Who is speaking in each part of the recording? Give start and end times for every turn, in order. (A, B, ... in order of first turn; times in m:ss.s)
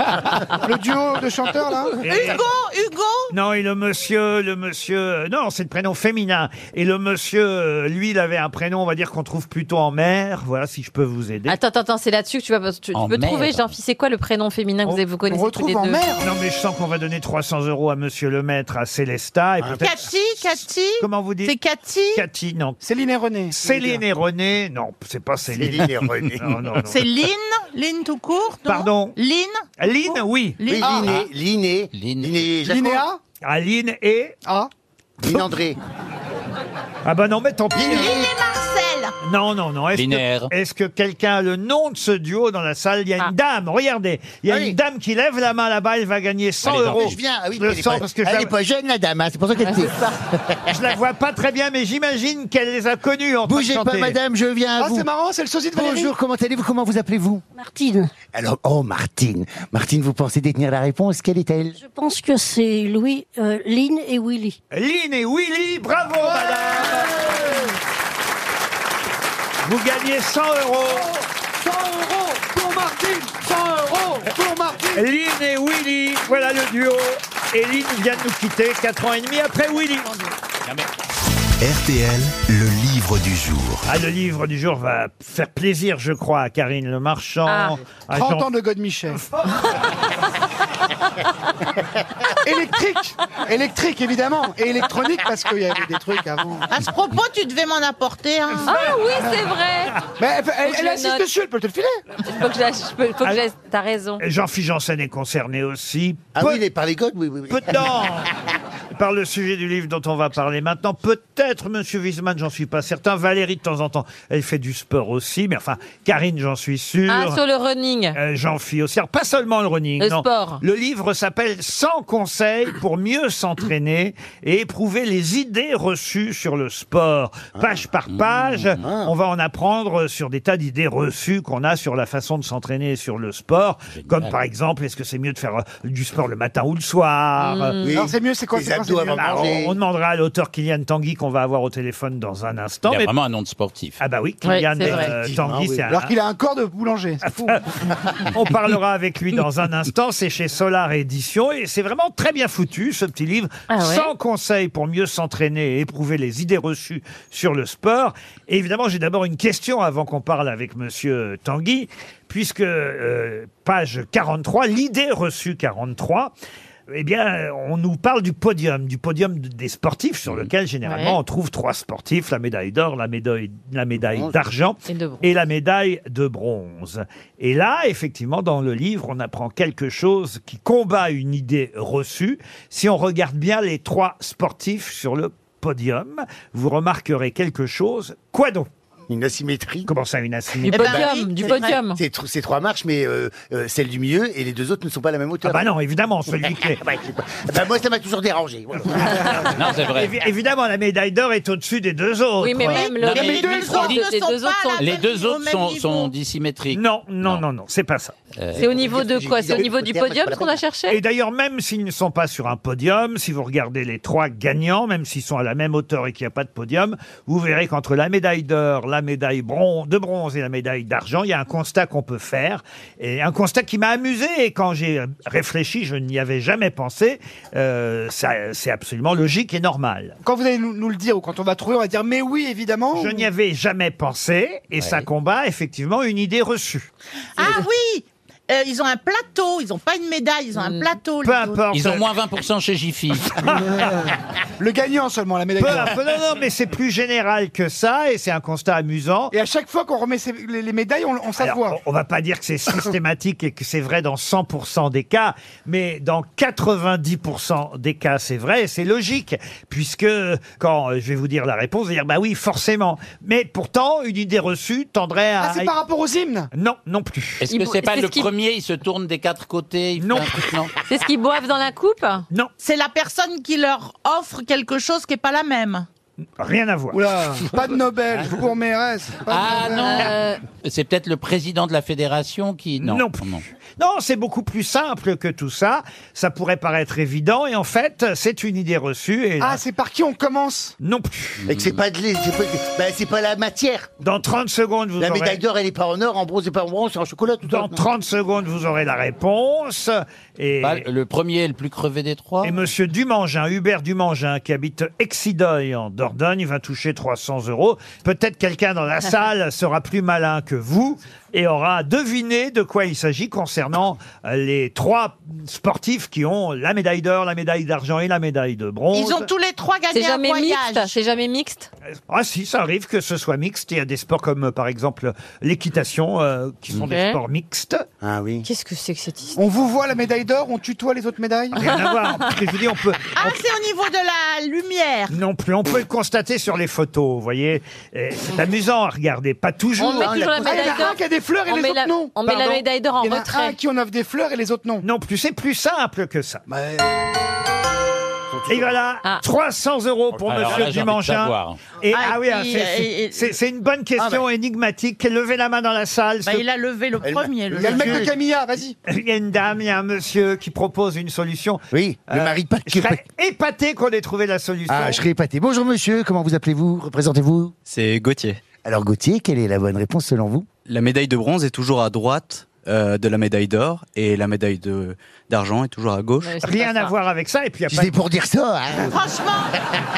0:00.6-0:02.0 A
0:02.0-0:02.4 B
0:02.0-0:03.3 C
0:03.3-0:11.6 B
0:11.5-0:16.1 D
0:12.9-0:13.7 E
0:15.3-0:16.3 A
0:16.2-0:21.6 B
0:19.6-0:19.8 F
0:19.6-0:22.2 C
0:22.1-0:22.8 B
0:22.8-0:24.0 A
0:23.5-0:27.0 B
0:25.6-0:26.6 F
0:26.8-0:31.1 C
0:28.6-0:29.2 B
0:29.8-0:30.8 B
0:30.6-0:33.0 F
0:30.8-0:31.1 A
0:31.9-0:32.4 E
0:32.6-0:33.2 A
0:33.4-0:34.4 B
0:34.4-0:34.7 A
0:35.2-0:35.8 F
0:37.0-0:38.3 B
0:37.7-0:38.3 F
0:37.7-0:39.1 C
0:39.2-0:48.5 B
0:39.9-0:40.5 E
0:44.5-0:44.8 F
0:46.6-0:50.6 F
0:46.6-0:47.1 E
0:50.7-0:54.2 B
0:53.5-0:55.1 F
0:54.8-0:56.1 A
0:55.7-0:57.4 F
0:57.5-0:58.1 G
0:58.3-1:01.8 F
1:01.8-1:04.6 G
1:04.7-1:07.7 B
1:06.4-1:07.4 A
1:09.6-1:11.1 B
1:10.9-1:15.1 A
1:14.9-1:20.1 B
1:21.6-1:23.9 H
1:23.8-1:28.5 B
1:27.5-1:27.8 D
1:28.1-1:29.2 A
1:29.1-1:29.7 B
1:32.4-1:36.7 A
1:36.7-1:38.7 C
1:38.6-1:39.1 B
1:38.6-1:40.0 D
1:40.2-1:42.0 A
1:40.6-1:41.2 D
1:42.2-1:44.2 D
1:44.2-1:46.6 B
1:46.3-1:48.0 F
1:47.5-1:48.3 B
1:49.0-1:57.4 B
1:57.1-1:58.2 D
1:58.1-2:17.8 B
2:00.0-2:00.6 D
2:07.5-2:07.8 F
2:08.1-2:08.7 E
2:08.8-2:09.1 F
2:13.9-2:14.4 E
2:17.4-2:18.0 D
2:17.8-2:19.8 F
2:17.9-2:19.4 A
2:19.1-2:23.1 B
2:22.8-2:24.0 E
2:24.0-2:26.1 B
2:24.4-2:25.1 D
2:24.8-2:25.9 F
2:25.9-2:27.6 A
2:27.4-2:46.3 B
2:33.7-2:34.1 D
2:46.9-3:08.7 B
2:50.8-2:51.2 D
2:54.0-2:54.3 F
2:54.9-2:55.3 D
3:09.1-3:09.9 F
3:09.9-3:11.1 B
3:10.6-3:12.0 D
3:10.7-3:11.8 C
3:11.3-3:15.6 F
3:15.4-3:16.8 B
3:16.4-3:19.4 F
3:19.5-3:20.2 E
3:19.9-3:23.0 B
3:22.4-3:24.9 D
3:22.6-3:26.1 C
3:23.0-3:24.1 E
3:24.8-3:27.4 E
3:26.7-3:28.1 B
3:28.4-3:28.6 E
3:28.5-3:30.6 F
3:28.6-3:31.0 D
3:30.9-3:50.2 B
3:50.2-3:53.2 A
3:52.9-3:56.9 B
3:54.8-3:55.0 E
3:57.4-4:01.6 C
4:01.2-4:02.1 B
4:01.7-4:03.4 E
4:03.3-4:03.8 B
4:03.6-4:06.0 A
4:05.6-4:09.3 B
4:09.3-4:11.8 A
4:11.4-4:25.7 B
4:25.4-4:26.5 A
4:26.5-4:27.4 B
4:27.4-4:30.7 E
4:27.5-4:28.3 D
4:30.0-4:30.4 B
4:30.9-4:32.2 D
4:32.6-4:35.9 C
4:36.4-4:37.0 B
4:36.9-4:40.0 A
4:39.3-4:43.4 E
4:39.7-4:40.4 D
4:42.8-4:49.6 B
4:49.4-4:50.8 A
4:50.8-4:51.4 B
4:51.4-4:51.8 E
4:51.5-4:53.9 F
4:54.0-4:55.4 B
4:55.0-4:57.8 F
4:57.5-5:00.8 B
5:00.6-5:02.6 E
5:02.4-5:19.3 B
5:18.9-5:20.9 C
5:19.9-5:21.7 D
5:22.1-5:27.8 B
5:26.8-5:27.2 D
5:28.0-5:28.4 F
5:28.4-5:29.4 D
5:29.4-5:31.7 A
5:31.6-5:33.4 B
5:31.7-5:31.9 D
5:33.1-5:35.2 C
5:35.1-5:40.1 B
5:39.8-5:40.9 F
5:39.8-5:43.6 D
5:40.4-5:44.8 A
5:44.8-5:46.4 B
5:46.5-5:46.9 F
5:48.3-5:48.8 F
5:48.5-5:56.4 B
5:50.3-5:51.6 E
5:50.4-5:50.7 F
5:51.9-5:53.3 C
5:54.0-5:54.2 F
5:56.2-5:58.0 C
5:57.0-5:58.1 F
5:57.5-5:58.8 A
5:58.8-6:05.0 B
6:01.7-6:03.0 F
6:04.7-6:07.5 F
6:07.7-6:08.4 I
6:08.6-6:10.5 F
6:10.6-6:16.4 I
6:16.2-6:16.9 D
6:16.4-6:17.9 B
6:17.7-6:19.0 F
6:18.8-6:19.6 C